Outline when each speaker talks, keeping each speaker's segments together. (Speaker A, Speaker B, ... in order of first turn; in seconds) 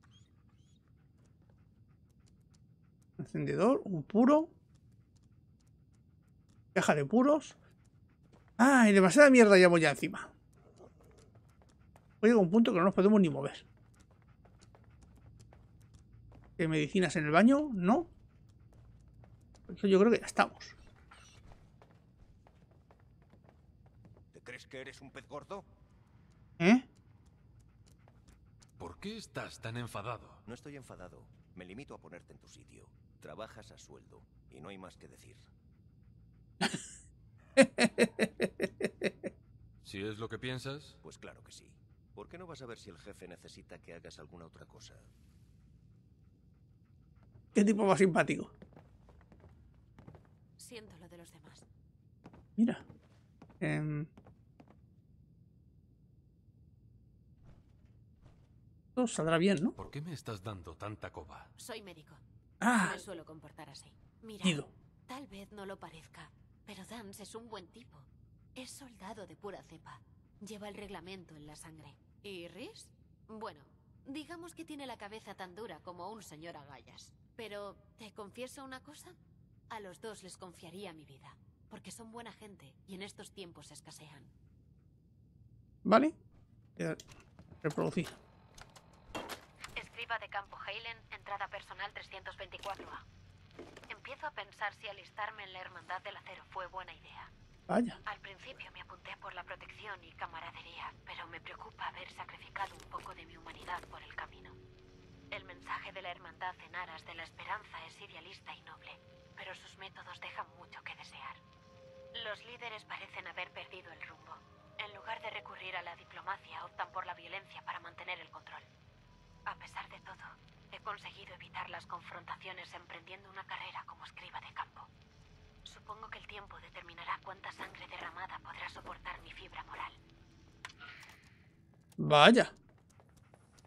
Speaker A: 3.2-4.5, 6.7-7.6, 8.6-10.3, 12.2-13.7, 16.6-18.1, 19.7-20.8, 26.6-26.9, 37.6-39.1, 47.5-48.5, 52.6-52.8, 53.6-54.1, 59.0-59.8, 62.6-63.0, 64.4-64.7, 85.8-86.1, 87.6-88.1, 97.7-98.0, 132.0-132.5
Speaker B: 24.3-25.6, 30.5-35.5, 41.0-45.1
Speaker C: 28.8-30.4, 39.8-41.0, 59.8-61.5
Speaker D: 50.6-51.6, 61.6-62.2, 62.7-79.2, 79.7-84.3, 89.8-93.0, 93.9-97.3, 98.1-104.6, 105.3-111.4, 112.2-118.7, 119.5-124.9, 125.7-130.0